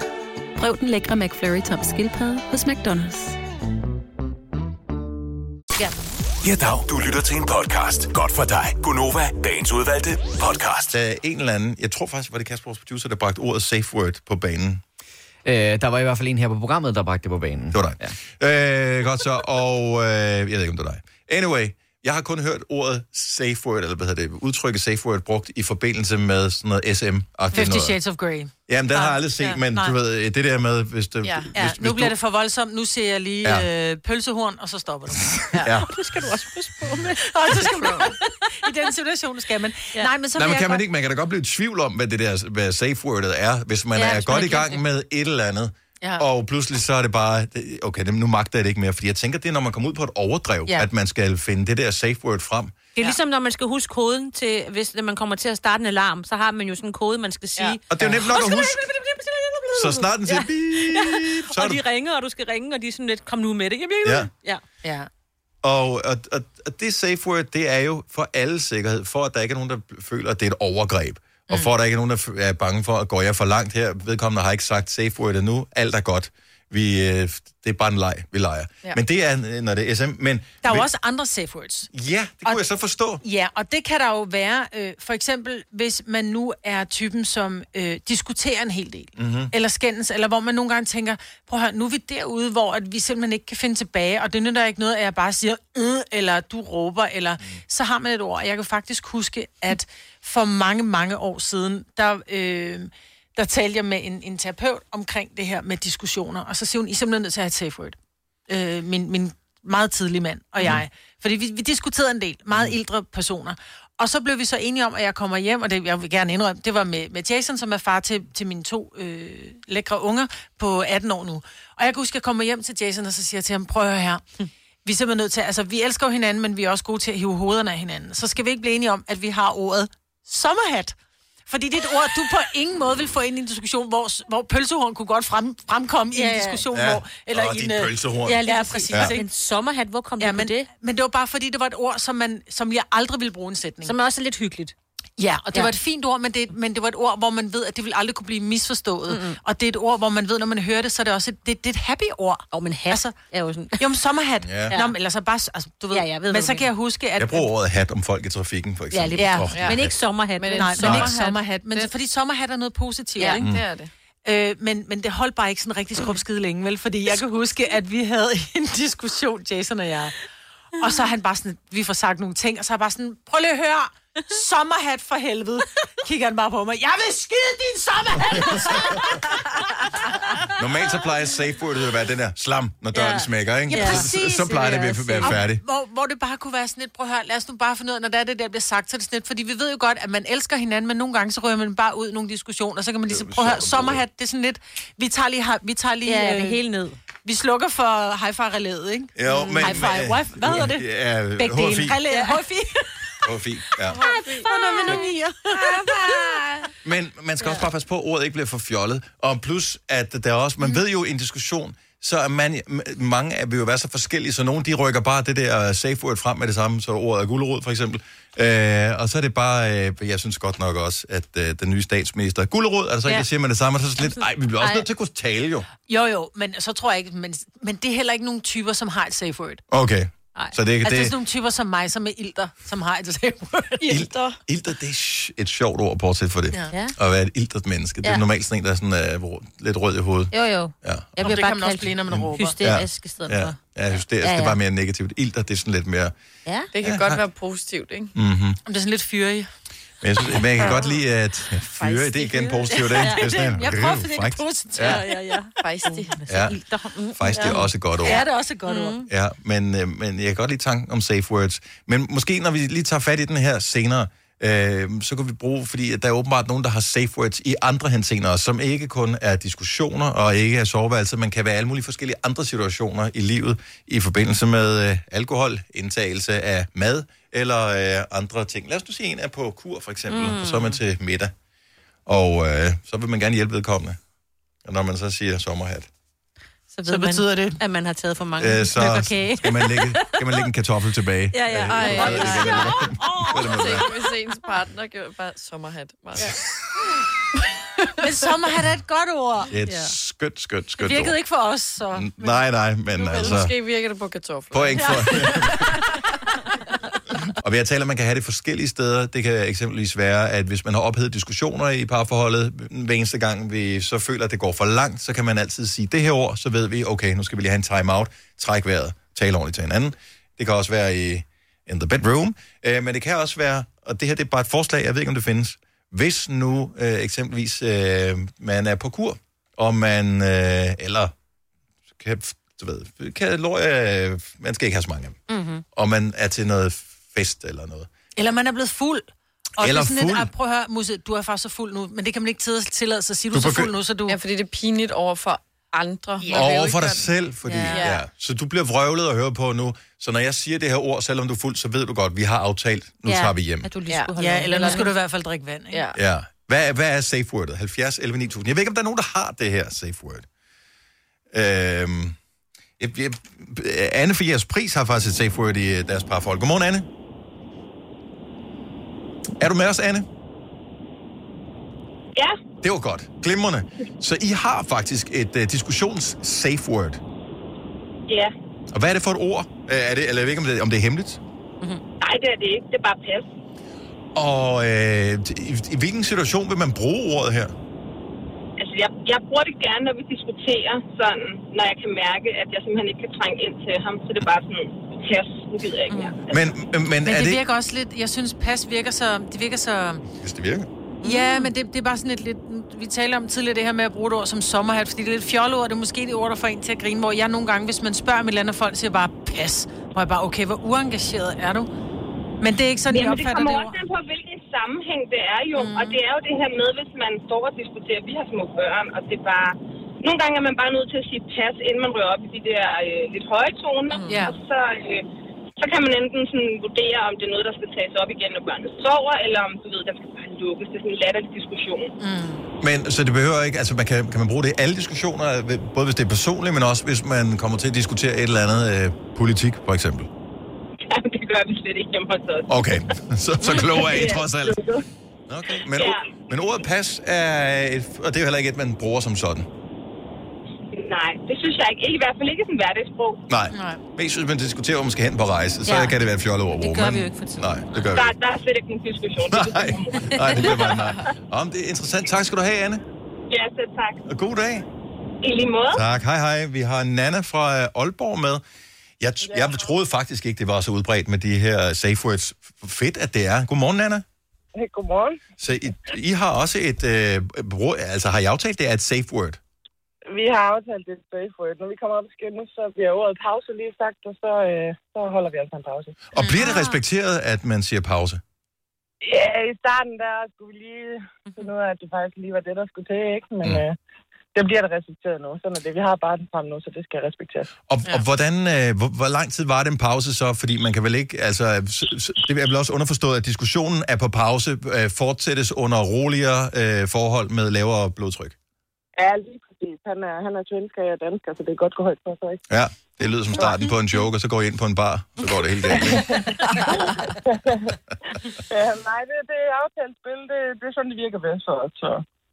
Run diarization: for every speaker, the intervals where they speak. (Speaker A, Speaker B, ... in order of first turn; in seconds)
Speaker A: 0.6-3.4
Speaker B: 6.4-10.9
Speaker C: 10.9-14.8, 17.7-28.0, 28.7-32.1, 35.2-36.1, 40.4-52.8, 57.9-58.8, 59.7-61.8, 64.0-64.3, 65.6-80.9, 81.9-83.2, 89.2-89.5, 136.7-139.2, 154.4-154.8, 157.2-160.0, 160.8-161.1, 180.5-185.6, 193.1-194.0, 199.2-202.0, 203.2-204.0, 206.8-225.7, 229.7-231.2, 233.9-241.4, 242.1-246.1, 246.8-247.2, 248.2-248.6, 250.0-255.0, 256.3-256.6, 257.1-258.2, 259.1-281.3, 282.1-284.0, 284.6-285.9, 288.4-293.9, 299.5-301.2, 301.9-303.5, 304.5-305.8, 307.4-331.1, 332.0-335.2, 335.7-337.9, 339.6-340.3, 343.3-343.7, 346.3-353.7, 355.9-360.3, 361.3-362.2, 362.8-366.9, 369.4-370.1, 372.6-377.0, 378.7-381.2, 384.1-387.5, 396.3-397.4, 400.2-400.7, 432.6-440.1, 442.5-444.6, 445.3-449.5, 453.3-458.1, 459.3-462.8, 464.1-464.7, 465.7-468.4, 469.0-474.0, 475.4-479.4, 486.1-488.2, 497.7-508.4, 512.5-516.1
Speaker D: 15.4-18.1
Speaker E: 27.5-30.0, 31.6-35.4, 37.2-40.9, 58.0-58.5, 64.8-65.1, 80.6-81.9, 83.2-108.0, 108.5-124.2, 124.8-131.0, 131.5-139.3, 140.2-143.9, 145.2-153.2, 153.8-157.5, 159.2-159.5, 160.6-163.5, 164.2-170.2, 170.8-179.3, 183.7-196.6, 197.2-203.0, 204.0-206.6, 225.9-229.6, 230.8-234.0, 241.2-242.6, 248.7-249.5, 252.7-255.4, 257.4-259.0, 286.9-287.6, 291.9-292.8, 298.0-299.5, 300.8-302.4, 305.1-305.4, 338.2-339.1, 339.6-344.2, 354.2-355.8, 397.0-400.0, 401.0-411.7, 412.4-413.8, 415.6-416.0, 424.1-424.4, 432.0-432.5, 453.5-453.8, 486.2-486.7
Speaker F: 31.2-31.5, 37.8-38.1, 159.5-161.1, 163.2-163.9, 203.9-205.0, 233.8-234.4, 246.7-248.1, 250.6-250.9, 251.8-252.7, 255.6-256.2, 291.6-296.4, 302.9-305.8, 344.1-347.1, 347.7-348.0, 353.9-354.9, 355.7-356.0, 423.9-424.2
Speaker G: 35.7-38.1, 44.0-44.8, 53.0-64.6, 136.1-136.7, 138.3-140.7, 143.8-144.7, 149.1-149.4, 152.5-153.9, 154.7-155.0, 155.9-156.7, 158.9-161.8, 182.9-185.4, 196.1-197.0, 199.3-200.0, 202.1-202.4, 204.0-206.7, 240.3-243.6, 244.2-244.6, 246.5-246.7, 252.7-253.7, 254.8-259.1, 280.1-280.8, 286.7-290.4, 291.3-293.8, 299.6-299.9, 335.3-335.6, 347.5-347.9, 353.1-354.9, 395.9-396.2, 401.0-401.5, 455.6-456.0, 456.6-457.5, 486.4-486.8
Speaker H: 378.1-378.3, 382.0-383.3, 388.6-396.1, 412.9-425.1, 425.6-431.9, 440.9-442.7, 443.4-444.8, 445.7-446.1, 450.7-453.2, 457.9-460.9, 463.3-464.0, 465.2-465.8
Speaker I: 474.6-475.2, 480.1-485.9, 489.0-493.8, 494.4-497.5, 509.0-512.4, 518.5-522.0